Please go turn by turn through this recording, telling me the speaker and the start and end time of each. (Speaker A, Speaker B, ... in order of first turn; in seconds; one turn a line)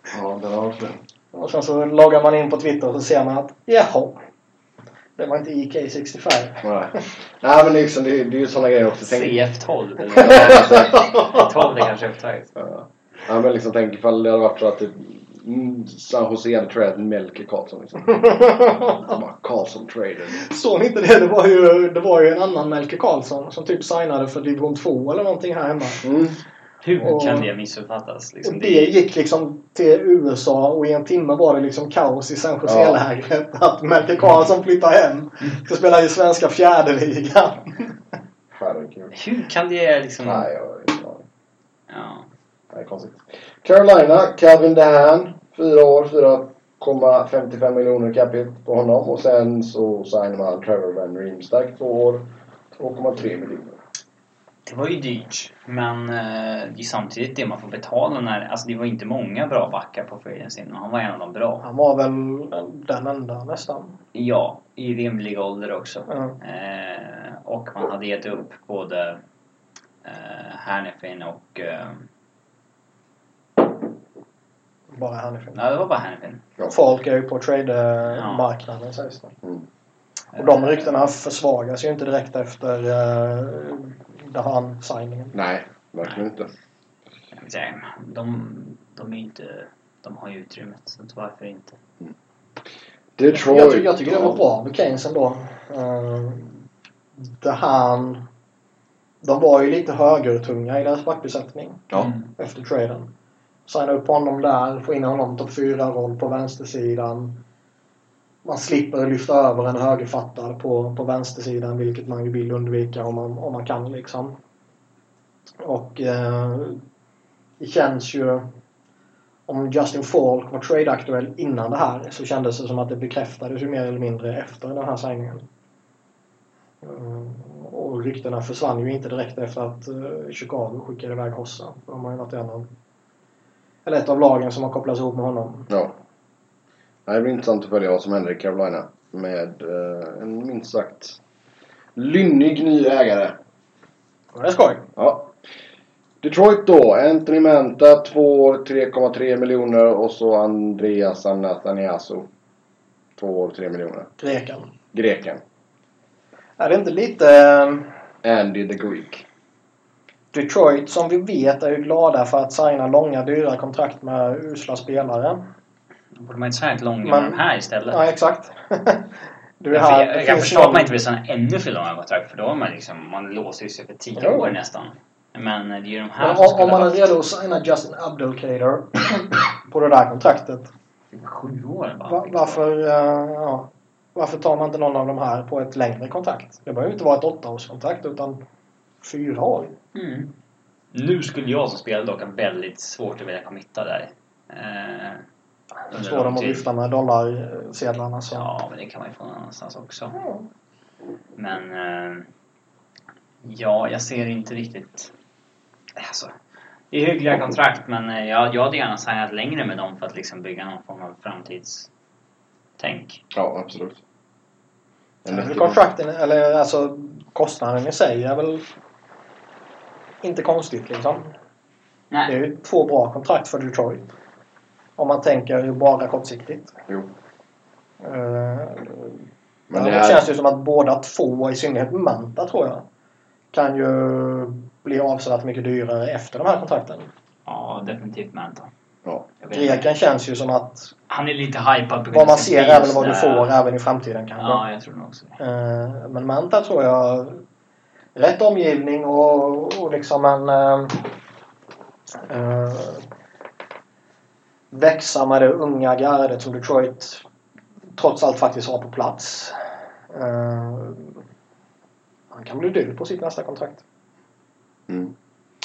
Speaker A: 0.1-1.0
Speaker B: 1.3-4.2
Speaker B: 5.2-6.7
Speaker A: 6.6-9.4
Speaker C: 9.0-12.6
Speaker A: 10.2-11.0
Speaker A: 12.6-20.4
Speaker B: 18.2-19.1
Speaker B: 20.3-26.1
Speaker A: 26.0-26.4
Speaker C: 26.8-28.9
Speaker B: 27.0-27.5
Speaker B: 28.4-38.0
Speaker A: 32.7-33.0
Speaker A: 38.5-39.1
Speaker C: 39.1-40.5
Speaker A: 40.2-41.2
Speaker C: 41.9-42.3
Speaker A: 42.7-53.8
Speaker C: 54.7-61.7
Speaker B: 61.6-64.0
Speaker C: 64.1-69.2
Speaker B: 66.1-66.4
Speaker C: 70.0-72.1
Speaker B: 74.9-75.6
Speaker C: 75.5-76.4
Speaker B: 76.7-79.3
Speaker C: 78.1-78.5
Speaker C: 80.3-81.1
Speaker B: 80.4-85.4
Speaker A: 85.3-86.5
Speaker C: 87.3-91.8
Speaker A: 93.2-94.4
Speaker B: 93.3-96.5
Speaker B: 97.3-98.2
Speaker B: 99.2-103.1
Speaker B: 103.7-107.4
Speaker B: 108.5-114.4
Speaker B: 115.6-116.8
Speaker B: 117.6-118.5
Speaker B: 119.5-125.4
Speaker B: 126.8-132.7
Speaker B: 133.8-135.7
Speaker A: 135.7-136.0
Speaker A: 137.1-141.2
Speaker A: 142.0-143.4
Speaker B: 144.3-144.9
Speaker A: 145.0-145.3
Speaker A: 146.2-152.3
Speaker A: 153.2-154.1
Speaker B: 154.2-154.7
Speaker A: 154.9-155.4
Speaker B: 156.6-157.9
Speaker A: 158.2-159.2
Speaker B: 160.3-165.4
Speaker C: 166.2-168.1
Speaker B: 167.0-169.1
Speaker B: 169.6-170.9
Speaker C: 169.7-177.1
Speaker B: 174.2-174.5
Speaker B: 176.2-180.7
Speaker C: 181.1-182.6
Speaker B: 182.1-188.4
Speaker B: 189.0-189.8
Speaker C: 189.9-190.3
Speaker C: 190.9-195.2
Speaker B: 195.9-198.5
Speaker C: 195.9-196.7
Speaker C: 198.3-200.2
Speaker B: 200.2-200.4
Speaker C: 201.4-202.3
Speaker C: 203.4-205.1
Speaker C: 205.9-206.3
Speaker C: 206.9-211.9
Speaker C: 212.8-213.2
Speaker A: 213.3-214.0
Speaker A: 215.2-215.8
Speaker B: 215.3-218.7
Speaker B: 220.2-221.3
Speaker B: 222.3-224.1
Speaker B: 225.0-226.8
Speaker B: 228.0-229.2
Speaker A: 229.7-230.3
Speaker B: 229.7-232.8
Speaker B: 233.5-237.1
Speaker C: 237.5-238.7
Speaker C: 239.4-239.9
Speaker B: 239.5-240.9
Speaker C: 241.1-243.5
Speaker B: 242.1-244.7
Speaker C: 244.4-245.4
Speaker B: 245.4-247.4
Speaker B: 248.2-251.1
Speaker B: 252.3-253.1
Speaker B: 254.7-257.2
Speaker B: 258.0-259.6
Speaker B: 260.1-261.2
Speaker B: 262.3-263.8
Speaker A: 264.9-265.1